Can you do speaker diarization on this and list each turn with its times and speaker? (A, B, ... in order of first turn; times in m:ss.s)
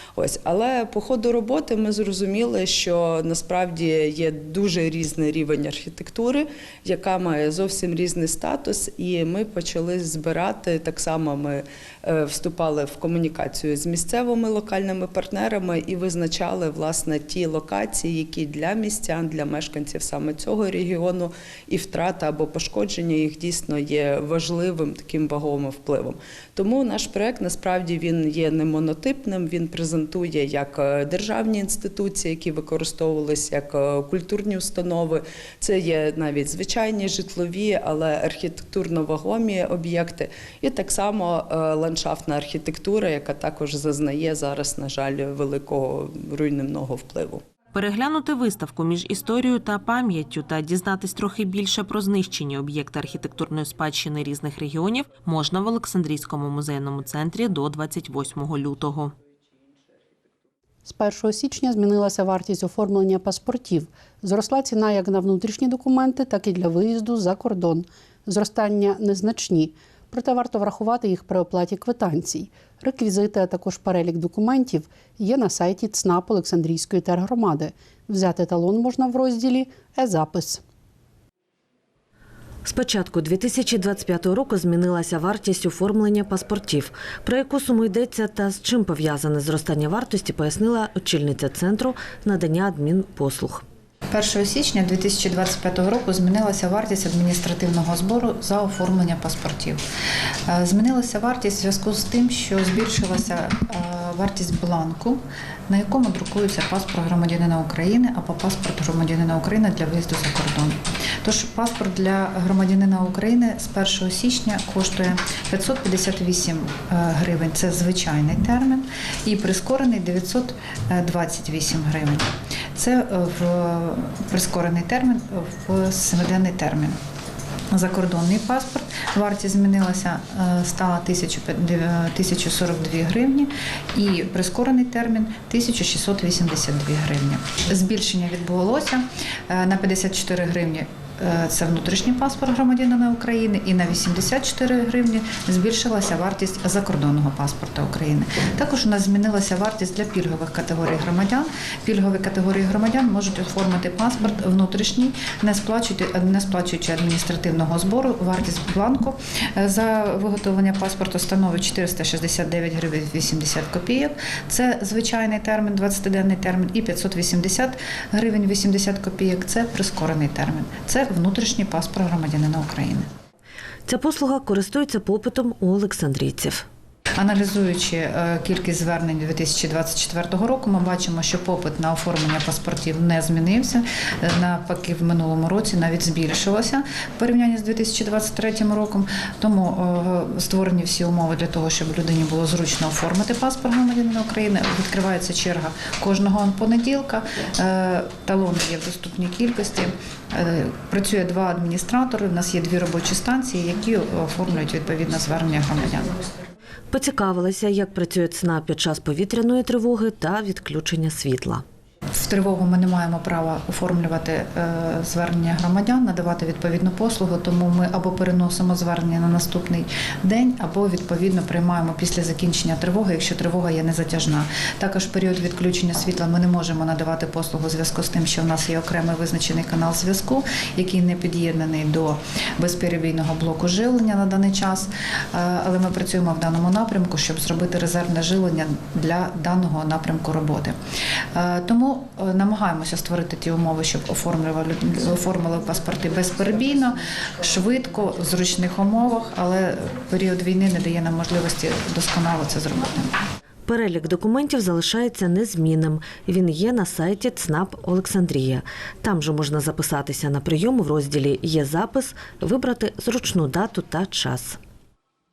0:00.2-0:47.4 A
0:47.7-0:59.1 B
1:00.8-1:20.6 C
1:22.7-1:33.6 D
1:34.1-1:39.8 E
1:40.5-2:07.0 E
2:07.7-2:53.1 E
2:53.9-2:56.7 D
2:57.2-3:26.2 E
3:26.9-3:31.6 D
3:32.1-4:00.8 E
4:01.4-4:13.2 E
4:13.7-4:24.6 D